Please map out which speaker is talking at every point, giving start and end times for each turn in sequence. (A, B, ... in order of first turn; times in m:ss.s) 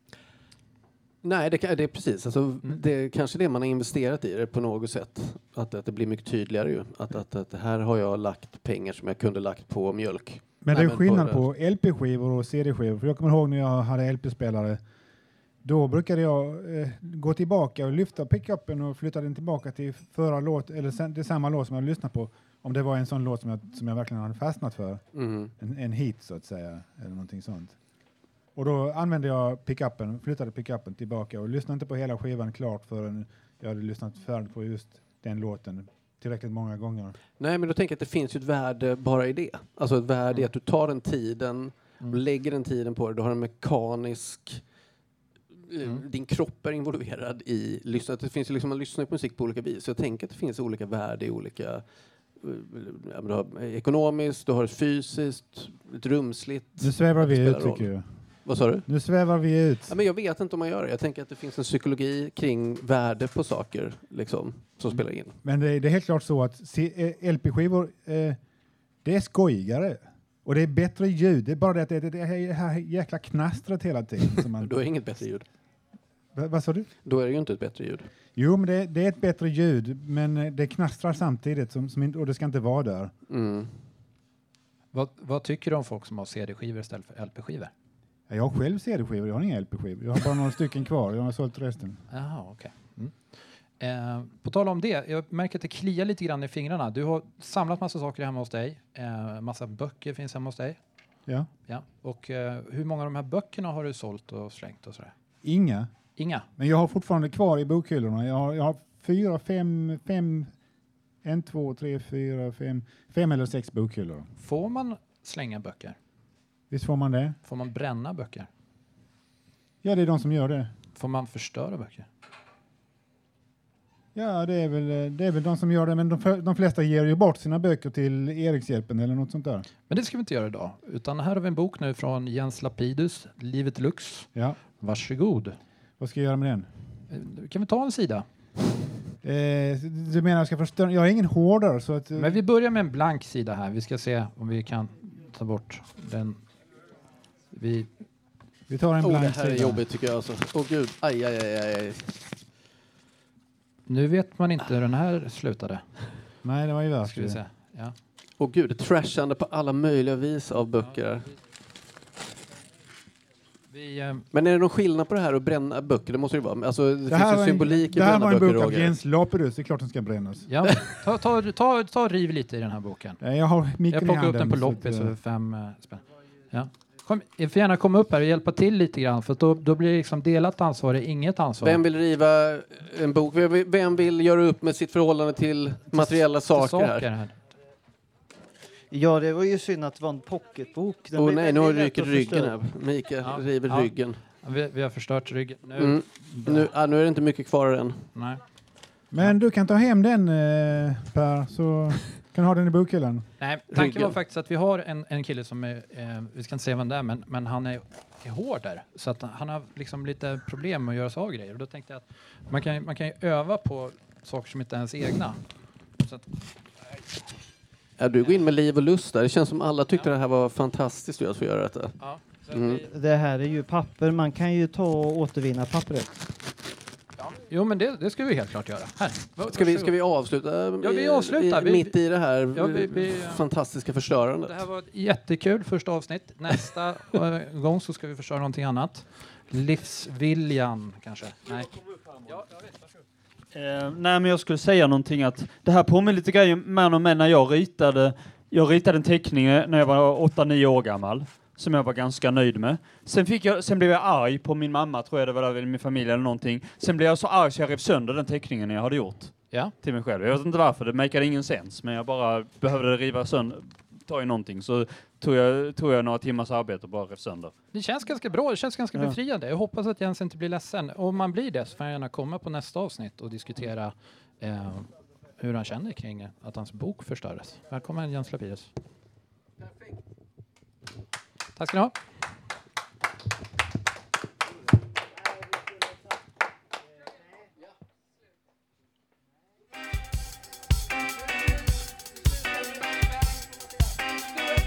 0:01.2-0:11.4 A
0:10.6-0:14.8 B
0:15.6-0:27.8 B
0:25.1-0:25.5 A
0:28.6-0:37.2 B
0:37.3-0:44.7 A
0:45.6-0:58.9 A
0:56.8-0:59.9 B
0:59.9-1:05.4 A
1:05.4-1:08.4 B
1:09.0-1:14.7 B
1:14.4-1:15.5 A
1:16.3-1:16.9 B
1:17.0-1:18.1 A
1:18.3-1:23.1 B
1:23.3-1:23.8 A
1:24.9-1:27.7 C
1:28.3-1:32.0 B
1:32.1-1:40.8 C
1:41.6-1:45.1 C
1:45.4-1:45.9 B
1:46.2-1:46.5 C
1:46.6-1:50.5 B
1:51.2-1:54.3 B
1:54.4-1:56.0 C
1:56.7-1:57.4 B
1:57.4-1:58.5 C
1:59.8-2:00.7 B
2:01.0-2:02.1 C
2:04.2-2:09.7 B
2:09.9-2:15.6 C
2:14.3-2:14.6 B
2:16.0-2:16.7 B
2:17.1-2:18.3 C
2:19.2-2:22.4 B
2:22.2-2:26.4 C
2:27.5-2:27.9 C
2:28.7-2:29.8 B
2:29.0-2:32.3 A
2:33.9-2:36.3 C
2:36.4-2:37.4 B
2:37.0-2:38.0 C
2:38.4-2:41.3 A
2:40.8-2:41.3 C
2:43.7-2:44.3 C
2:44.3-2:48.9 A
2:47.1-2:50.5 B
2:50.5-2:53.2 C
2:50.6-2:51.0 A
2:53.2-2:55.1 B
2:53.9-3:01.8 C
3:01.6-3:07.1 A
3:05.9-3:07.4 C
3:08.9-3:12.6 D
3:11.2-3:14.2 A
3:13.2-3:16.7 C
3:15.8-3:18.1 A
3:18.1-3:18.4 C
3:19.1-3:23.3 B
3:23.4-3:35.4 C
3:23.7-3:24.2 A
3:36.0-3:36.3 C
3:38.0-3:42.0 A
3:42.0-3:42.9 C
3:42.5-3:42.9 A
3:42.8-3:46.2 D
3:47.2-3:49.9 C
3:49.4-3:54.6 A
3:50.8-3:53.4 C
3:54.4-4:02.7 C
4:03.5-4:27.6 E
4:27.7-4:38.7 C
4:41.6-4:42.0 C